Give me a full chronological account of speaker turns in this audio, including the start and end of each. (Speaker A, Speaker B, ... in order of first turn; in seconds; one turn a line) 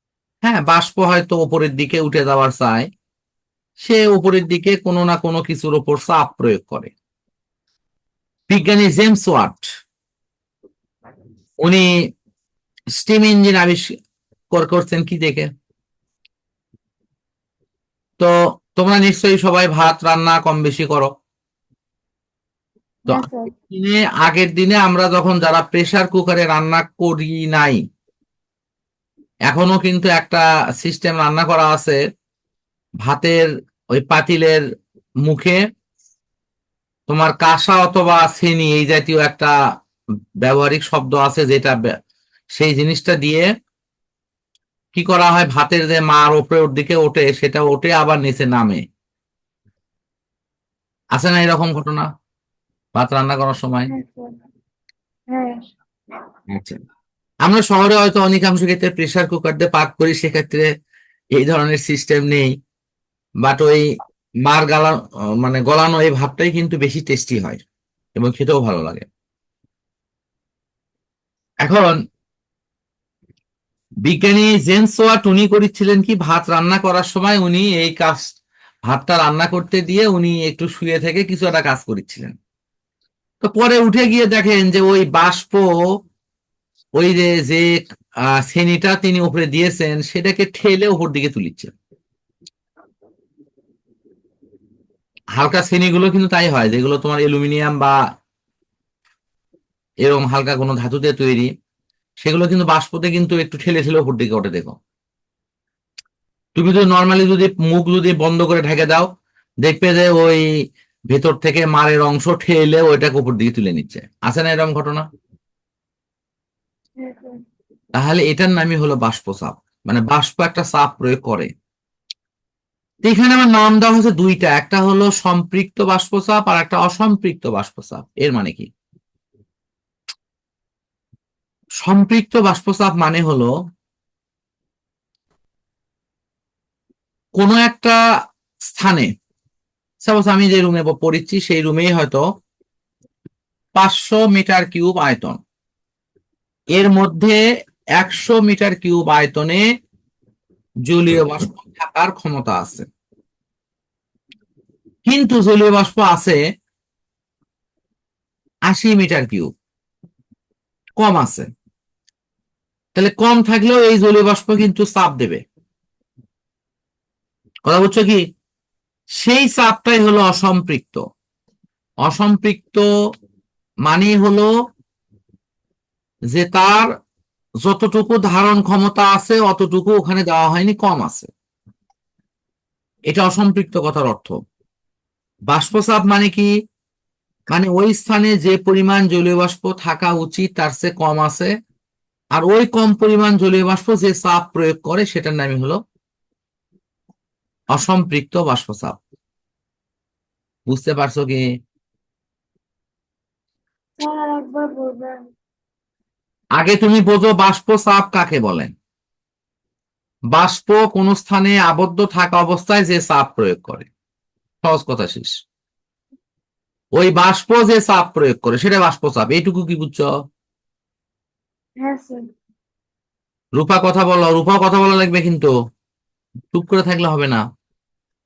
Speaker A: 0.4-2.9
Speaker A: 3.8-6.9
Speaker A: 8.5-9.7
Speaker A: 11.6-11.9
Speaker A: 13.0-13.9
Speaker A: 14.5-15.5
Speaker A: 18.2-21.1
Speaker A: 23.1-27.8
Speaker B: 23.1-23.5
Speaker A: 29.5-32.0
Speaker A: 33.0-34.6
Speaker A: 35.2-35.6
Speaker A: 37.1-39.5
Speaker A: 40.4-41.8
Speaker A: 42.5-43.5
Speaker A: 44.9-48.8
Speaker A: 51.1-52.1
Speaker A: 53.0-53.9
Speaker B: 53.9-54.3
Speaker B: 55.3-55.6
Speaker A: 56.5-56.8
Speaker A: 57.4-60.7
Speaker A: 61.3-62.5
Speaker A: 63.4-63.9
Speaker A: 64.4-67.6
Speaker A: 68.2-69.0
Speaker A: 71.6-72.0
Speaker A: 74.0-78.3
Speaker A: 78.9-82.3
Speaker A: 83.4-85.8
Speaker A: 87.0-87.8
Speaker A: 88.3-91.7
Speaker A: 95.3-98.0
Speaker A: 100.0-101.5
Speaker A: 102.2-104.8
Speaker A: 106.5-109.1
Speaker A: 109.6-110.4
Speaker A: 111.1-115.0
Speaker B: 117.0-117.4
Speaker A: 117.9-121.5
Speaker A: 123.0-128.7
Speaker A: 131.8-133.5
Speaker A: 137.4-138.0
Speaker A: 138.7-139.1
Speaker A: 140.0-142.2
Speaker A: 143.8-145.4
Speaker A: 146.8-147.4
Speaker A: 148.0-149.6
Speaker A: 150.9-152.9
Speaker A: 155.1-156.4
Speaker A: 158.7-159.5
Speaker A: 161.0-161.5
Speaker A: 162.9-165.4
Speaker A: 167.7-168.2
Speaker A: 169.2-171.0
Speaker A: 172.1-172.8
Speaker A: 173.8-174.5
Speaker A: 176.3-176.9
Speaker A: 177.6-181.3
Speaker A: 183.1-184.4
Speaker A: 185.5-186.5
Speaker A: 187.5-191.5
Speaker A: 192.3-195.8
Speaker A: 197.7-199.0
Speaker A: 200.7-201.4
Speaker B: 204.0-205.2
Speaker A: 206.6-208.7
Speaker A: 210.3-213.9
Speaker A: 214.6-215.3
Speaker A: 216.9-220.1
Speaker B: 221.8-222.2
Speaker A: 223.6-225.5
Speaker A: 226.5-227.4